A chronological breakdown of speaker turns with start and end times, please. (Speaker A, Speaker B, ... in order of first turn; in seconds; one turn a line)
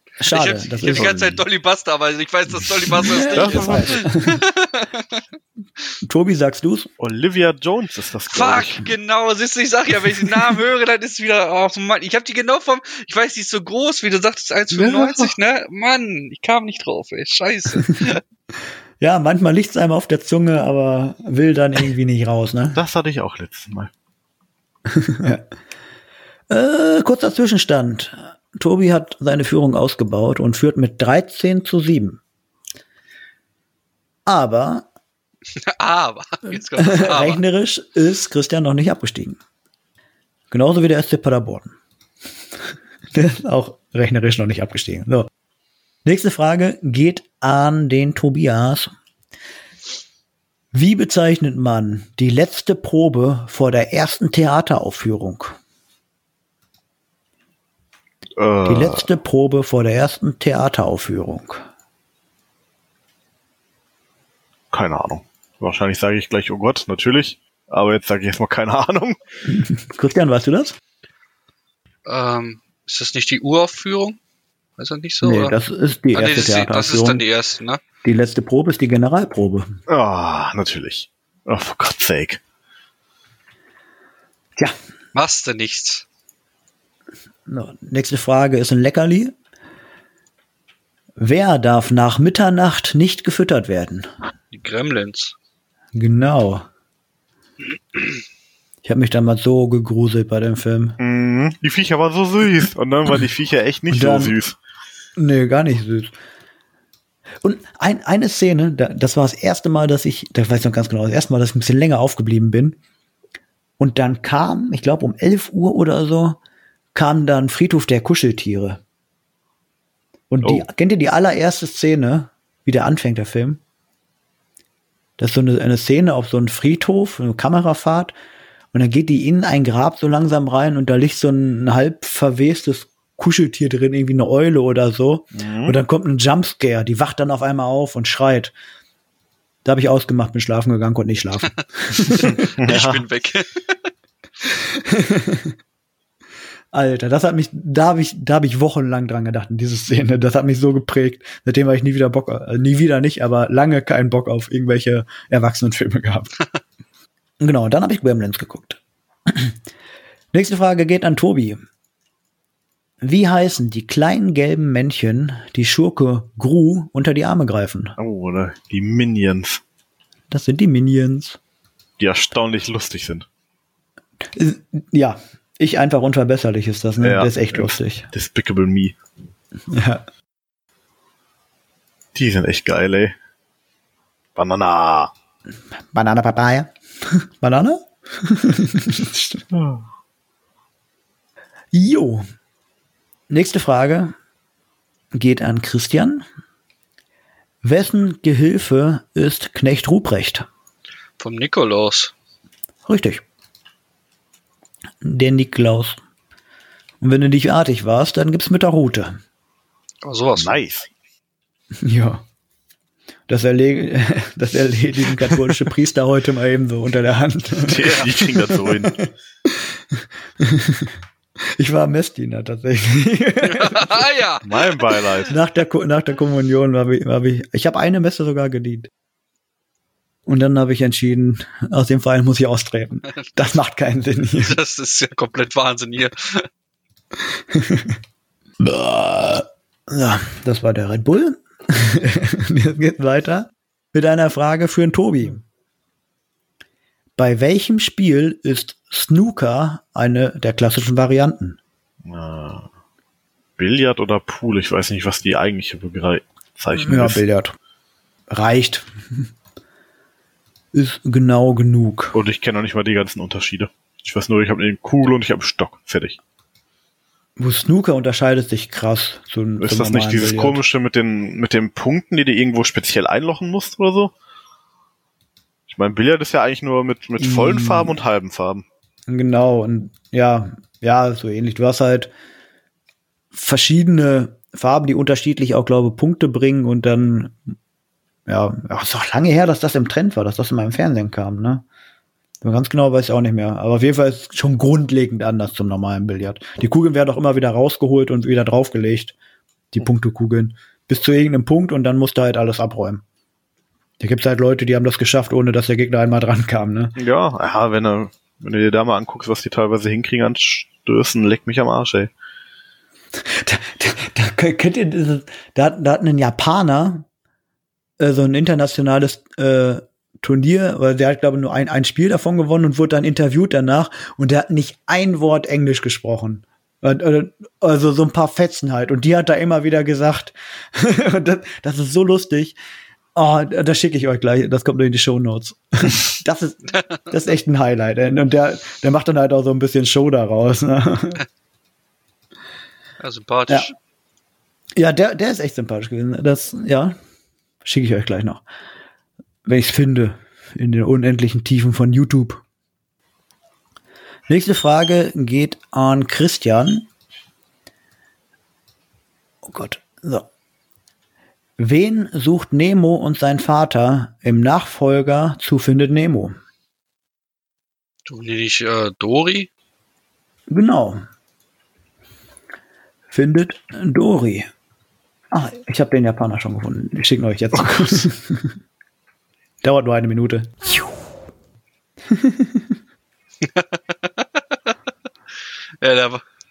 Speaker A: 0.2-1.4
Speaker B: 0.3-5.2
Speaker A: 2.9-4.4
Speaker C: 3.3-4.0
Speaker A: 6.0-6.9
Speaker C: 7.0-8.9
Speaker B: 8.3-18.2
Speaker C: 14.7-15.3
Speaker A: 19.0-22.8
Speaker C: 22.7-23.9
Speaker A: 24.9-25.4
Speaker A: 26.5-32.2
Speaker A: 34.3-34.9
Speaker B: 35.5-37.4
Speaker A: 36.5-39.4
Speaker A: 40.5-41.8
Speaker A: 43.1-45.3
Speaker A: 46.0-48.9
Speaker A: 50.7-55.5
Speaker C: 58.4-59.0
Speaker A: 58.6-61.6
Speaker C: 64.7-69.2
Speaker A: 69.5-70.8
Speaker B: 72.0-74.2
Speaker B: 74.8-75.5
Speaker A: 75.2-77.2
Speaker B: 76.1-77.8
Speaker A: 78.0-79.8
Speaker C: 79.9-82.4
Speaker B: 85.1-86.0
Speaker A: 87.5-89.3
Speaker A: 91.2-94.1
Speaker B: 94.5-95.3
Speaker A: 95.9-96.7
Speaker A: 98.8-101.0
Speaker C: 101.0-104.5
Speaker A: 103.9-104.4
Speaker A: 105.2-106.1
Speaker A: 107.4-112.8
Speaker A: 113.8-116.4
Speaker A: 117.0-118.8
Speaker A: 120.3-123.6
Speaker A: 125.2-128.1
Speaker A: 128.7-138.5
Speaker C: 135.3-135.8
Speaker A: 139.6-142.3
Speaker B: 142.0-143.6
Speaker C: 142.2-143.1
Speaker A: 144.6-145.6
Speaker A: 146.7-156.3
Speaker A: 157.4-159.6
Speaker A: 160.3-161.6
Speaker A: 163.0-168.0
Speaker C: 168.0-169.6
Speaker A: 170.3-171.4
Speaker C: 172.0-173.3
Speaker A: 174.2-178.1
Speaker C: 177.0-178.9
Speaker A: 179.7-180.0
Speaker C: 182.1-183.1
Speaker C: 184.4-185.1
Speaker A: 185.9-189.4
Speaker C: 189.5-189.8
Speaker A: 191.7-192.2
Speaker A: 193.3-194.1
Speaker A: 195.1-196.2
Speaker A: 197.6-200.5
Speaker B: 201.2-202.1
Speaker A: 202.9-203.2
Speaker A: 205.0-206.0
Speaker A: 207.0-209.2
Speaker B: 210.0-210.6
Speaker C: 210.4-210.9
Speaker A: 211.8-212.2
Speaker A: 213.3-221.0
Speaker C: 217.6-218.9
Speaker A: 221.6-224.1
Speaker B: 223.4-224.8
Speaker C: 224.4-225.3
Speaker A: 225.3-228.9
Speaker A: 230.3-234.6
Speaker B: 234.4-236.4
Speaker A: 237.2-238.0
Speaker A: 238.6-245.4
Speaker A: 247.2-251.6
Speaker C: 252.1-252.7
Speaker C: 253.6-257.2
Speaker A: 256.7-257.6
Speaker A: 258.3-259.3
Speaker A: 260.7-262.1
Speaker C: 262.1-266.2
Speaker A: 267.4-270.6
Speaker C: 269.6-274.1
Speaker C: 275.7-278.6
Speaker A: 277.2-278.0
Speaker A: 279.1-282.1
Speaker A: 283.3-287.4
Speaker A: 288.3-291.6
Speaker A: 292.4-299.1
Speaker A: 299.7-303.0
Speaker A: 304.0-306.9
Speaker C: 306.9-312.1
Speaker A: 313.2-317.1
Speaker A: 318.0-332.6
Speaker A: 333.1-341.2
Speaker B: 343.0-343.7
Speaker A: 344.8-346.9
Speaker A: 347.6-348.4
Speaker A: 349.4-352.4
Speaker A: 354.3-356.9
Speaker A: 359.4-360.3
Speaker A: 361.6-366.4
Speaker B: 368.1-369.5
Speaker A: 370.5-371.0
Speaker A: 373.1-374.5
Speaker A: 375.3-378.6
Speaker C: 377.6-378.0
Speaker A: 379.6-380.8
Speaker A: 382.1-382.7
Speaker B: 383.4-384.3
Speaker B: 385.8-386.2